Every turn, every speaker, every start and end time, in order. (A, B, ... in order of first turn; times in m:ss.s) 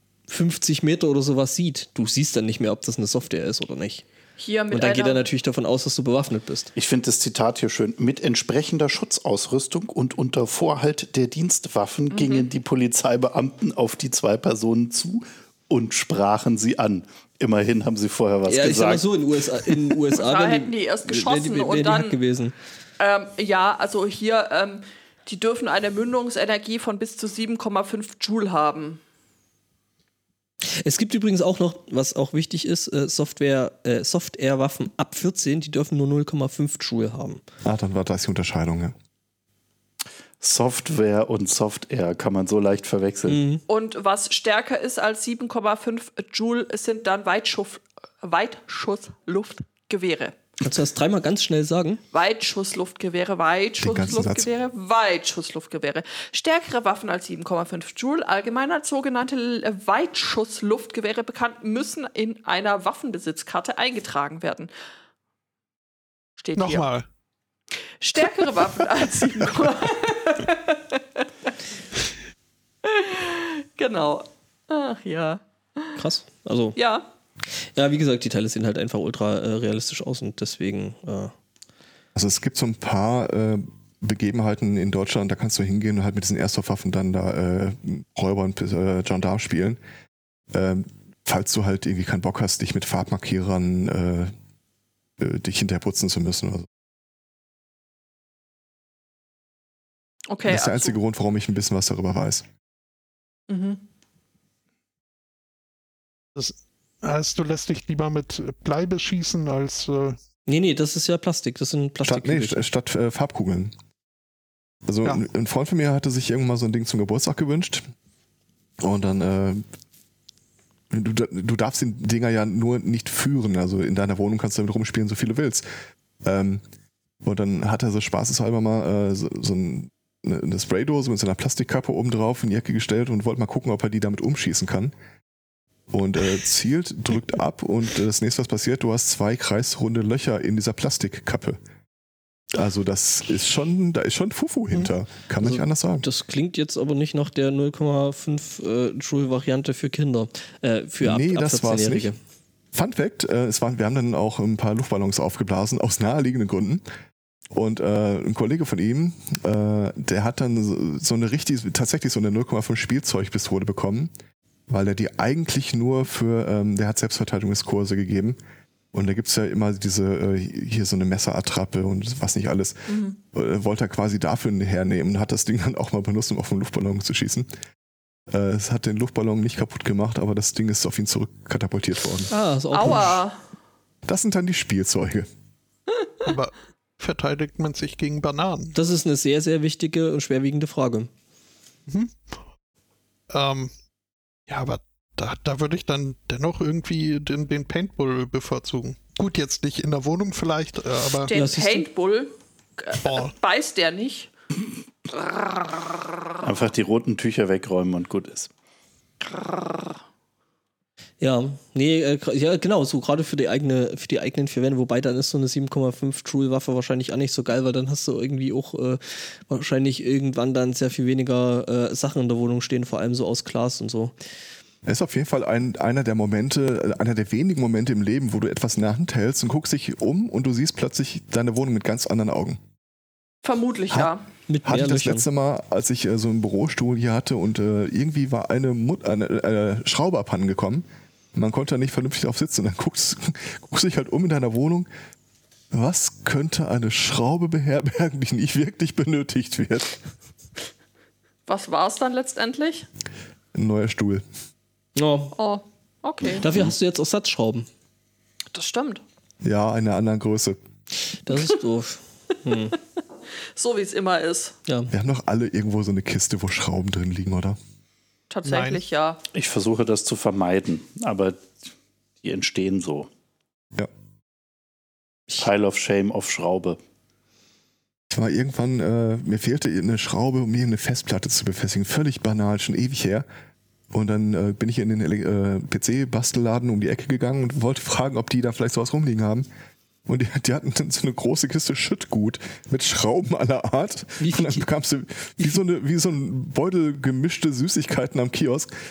0:00.3-0:04.0 A
0:04.4-0:05.2 B
0:04.7-0:06.7 A
0:06.7-0:19.8 C
0:12.1-0:12.5 B
0:18.4-0:22.5 A
0:20.2-0:22.2 B
0:23.0-0:29.0 B
0:30.7-0:37.4 A
0:37.6-0:38.9 D
0:40.4-0:43.4 C
0:43.3-0:43.6 A
0:43.7-0:50.4 B
0:50.6-0:52.0 A
0:52.1-1:04.7 B
0:53.8-0:54.5 D
1:06.4-1:06.9 B
1:06.6-1:07.1 E
1:08.0-1:11.2 B
1:12.8-1:16.0 B
1:16.0-1:16.8 A
1:16.8-1:17.1 B
1:17.5-1:21.3 A
1:22.1-1:29.8 D
1:30.5-1:34.3 D
1:35.2-1:36.7 D
1:40.3-1:41.0 B
1:40.4-1:42.4 D
1:43.5-1:43.8 B
1:46.4-1:50.2 E
1:50.5-1:52.6 A
1:52.0-1:53.7 D
1:54.8-1:57.8 D
1:58.8-1:59.6 D
2:00.9-2:05.6 D
2:06.2-2:06.6 D
2:07.2-2:14.9 D
2:15.9-2:21.6 D
2:22.5-2:26.0 D
2:25.4-2:32.2 A
2:31.0-2:32.1 D
2:32.7-2:36.8 D
2:37.5-2:44.1 D
2:44.7-2:48.4 D
2:48.9-2:57.5 D
2:52.9-2:53.2 B
2:58.3-3:02.3 D
3:02.3-3:03.2 A
3:02.7-3:03.4 B
3:04.0-3:05.3 D
3:06.2-3:08.8 E
3:08.7-3:11.1 A
3:11.9-3:12.4 E
3:13.3-3:13.7 E
3:14.5-3:21.3 E
3:21.3-3:24.3 B
3:21.3-3:21.9 A
3:23.0-3:23.3 E
3:26.4-3:28.5 C
3:29.3-3:29.9 B
3:31.2-3:44.1 A
3:44.8-3:52.6 D
3:53.4-3:54.2 B
3:54.5-3:55.2 A
3:54.6-4:04.9 D
4:05.7-4:10.0 D
4:11.5-4:12.9 B
4:13.5-4:14.2 D
4:15.0-4:15.4 A
4:15.4-4:16.4 B
4:16.4-4:17.7 A
4:18.5-4:19.0 B
4:19.4-4:20.6 D
4:21.1-4:22.8 A
4:23.5-4:24.6 B
4:24.7-4:24.9 A
4:24.9-4:27.6 D
4:28.3-4:29.2 B
4:28.4-4:28.8 E
4:29.3-4:31.6 C
4:32.2-4:33.1 C
4:35.4-4:36.8 C
4:38.1-4:43.2 D
4:43.9-4:49.5 D
4:50.0-4:58.7 D
4:54.2-4:54.6 A